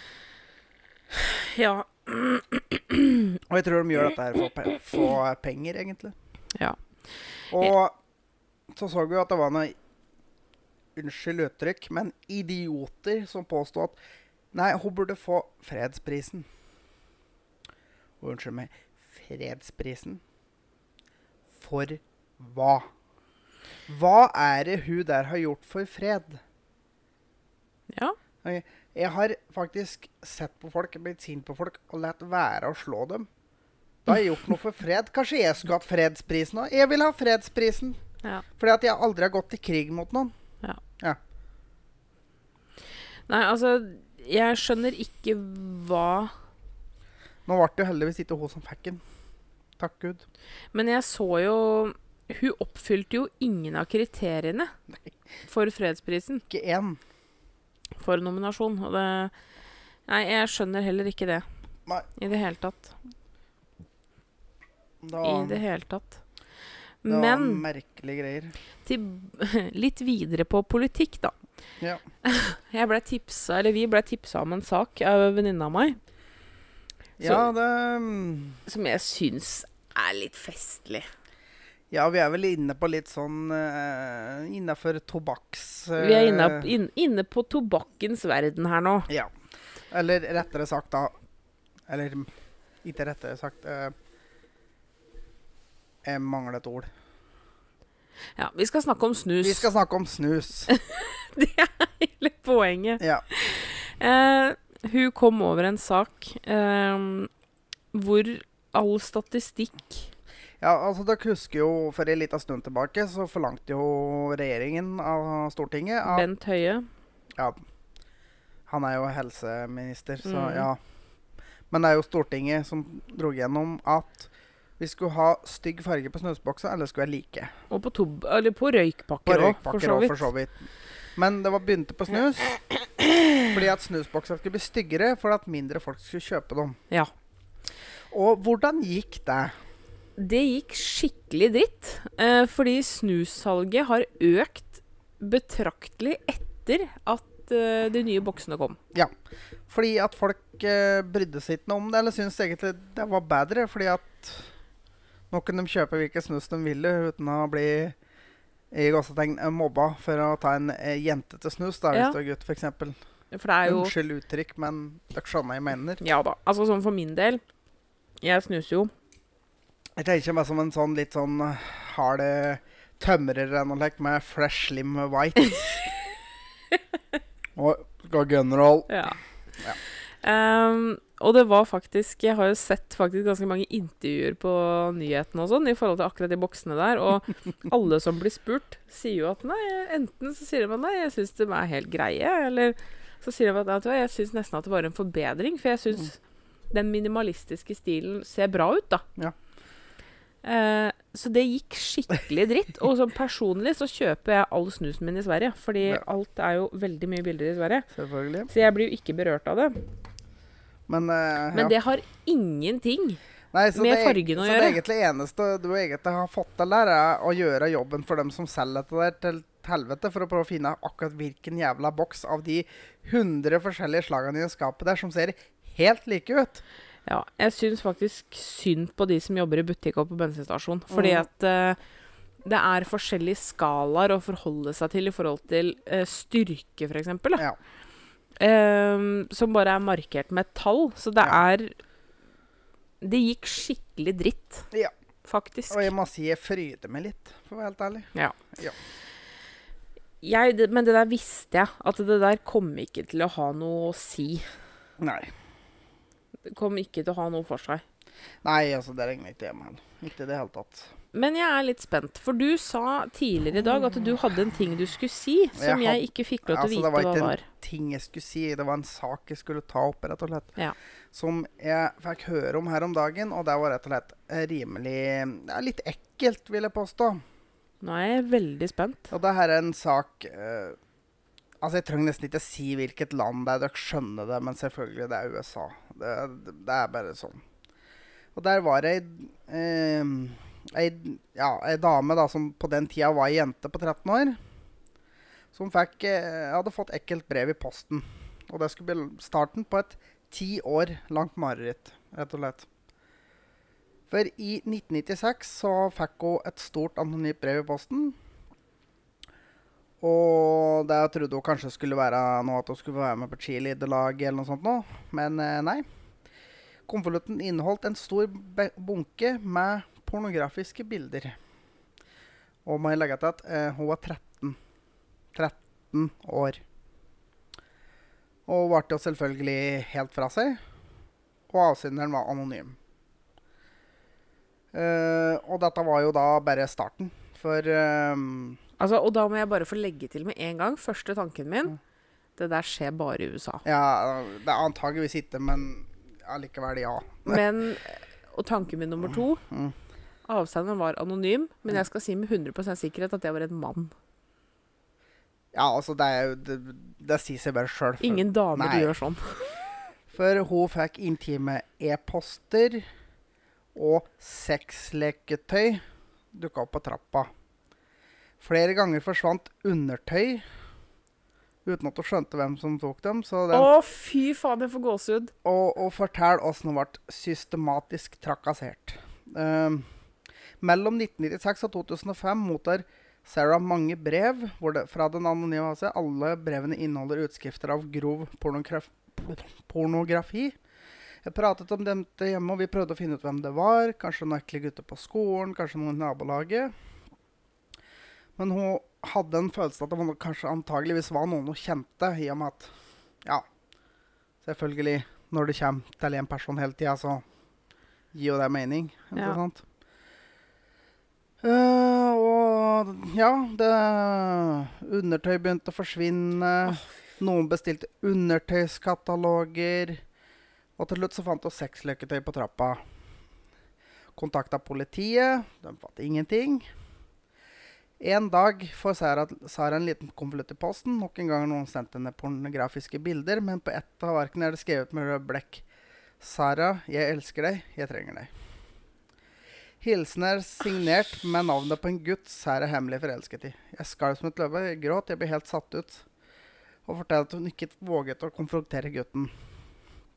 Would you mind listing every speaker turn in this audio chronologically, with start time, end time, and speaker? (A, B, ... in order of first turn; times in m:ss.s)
0:01.1-0:03.4 A
0:03.5-0:06.2 B
0:07.5-0:08.0 B
0:08.7-0:09.8 B
0:11.0-0:14.0 B
0:14.5-0:16.5 B
0:18.2-0:20.2 B
0:21.6-0:22.9 B
0:23.9-0:26.4 B
0:27.9-0:28.2 A
0:28.4-0:33.3 B
0:34.1-0:38.0 B
0:38.6-0:40.3 B
0:43.3-0:46.4 A
0:47.5-0:49.0 B
0:49.8-0:50.2 B
0:50.7-0:54.7 A
0:55.5-0:56.4 A
0:56.5-0:57.0 B
0:58.0-0:59.3 A
1:00.1-1:01.5 A
1:02.2-1:03.0 A
1:05.0-1:05.6 B
1:05.2-1:06.2 A
1:07.0-1:07.6 A
1:07.1-1:08.5 B
1:08.8-1:11.3 A
1:12.2-1:16.0 A
1:17.2-1:18.6 B
1:17.2-1:17.5 A
1:18.7-1:21.1 A
1:21.9-1:26.7 B
1:26.0-1:29.1 A
1:29.9-1:31.1 B
1:31.9-1:32.3 B
1:32.8-1:34.0 B
1:36.0-1:36.9 B
1:38.4-1:39.7 A
1:39.4-1:40.7 B
1:40.7-1:47.3 A
1:47.9-1:50.1 A
1:50.6-1:56.3 B
1:56.0-1:56.9 A
1:58.7-2:00.8 B
2:00.2-2:00.7 A
2:01.7-2:07.5 B
2:07.7-2:10.3 A
2:09.3-2:12.6 B
2:13.0-2:13.4 A
2:13.5-2:16.8 B
2:18.1-2:19.5 B
2:20.2-2:28.8 A
2:29.7-2:34.5 B
2:35.3-2:38.0 B
2:38.7-2:43.0 B
2:41.9-2:42.2 A
2:43.3-2:43.9 A
2:43.6-2:46.0 B
2:46.0-2:47.4 A
2:48.2-2:48.9 A
2:50.0-2:55.9 B
2:57.6-2:58.9 B
2:58.9-2:59.2 A
3:00.2-3:16.2 A
3:16.7-3:19.0 A
3:20.4-3:27.9 A
3:27.9-3:28.5 B
3:28.5-3:29.8 A
3:30.9-3:31.8 B
3:31.5-3:33.2 A
3:33.5-3:46.6 B
3:33.7-3:34.8 A
3:47.1-3:51.8 A
3:50.9-3:51.3 B
3:52.4-3:57.4 A
3:58.4-4:01.8 A
4:03.0-4:04.7 A
4:05.2-4:05.9 A
4:05.7-4:08.8 B
4:10.2-4:14.5 A
4:15.0-4:15.3 B
4:16.5-4:17.8 A
4:18.4-4:20.9 B
4:21.1-4:27.5 A
4:25.6-4:30.6 B
4:31.1-4:37.2 B
4:37.8-4:39.1 A
4:39.1-4:40.8 B
4:41.6-4:47.4 B
4:48.4-4:54.4 B
4:55.5-5:02.7 B
5:04.1-5:08.2 B
5:10.0-5:15.8 B
5:16.9-5:21.4 B
5:22.6-5:24.6 B
5:25.3-5:26.6 B
5:28.5-5:30.6 B
5:31.5-5:32.8 B
5:34.7-5:38.6 B
5:38.8-5:41.8 A
5:42.4-5:43.6 A
5:43.6-5:47.4 B
5:47.3-5:49.4 A
5:49.4-5:49.8 B
5:50.3-5:53.9 A
5:55.5-5:58.9 B
5:58.0-5:59.6 A
6:00.1-6:02.8 B
6:03.8-6:07.3 B
6:08.4-6:10.4 B
6:11.6-6:13.7 B
6:13.5-6:15.3 A
6:15.4-6:19.9 B
6:20.6-6:30.6 B
6:31.2-6:36.7 B
6:38.4-6:42.7 B
6:44.4-6:47.2 B
6:48.1-6:49.6 B
6:51.4-7:00.0 B
7:00.8-7:02.8 B
7:04.2-7:06.7 B
7:08.0-7:15.6 B
7:16.2-7:18.3 B
7:19.8-7:26.0 B
7:26.9-7:29.3 B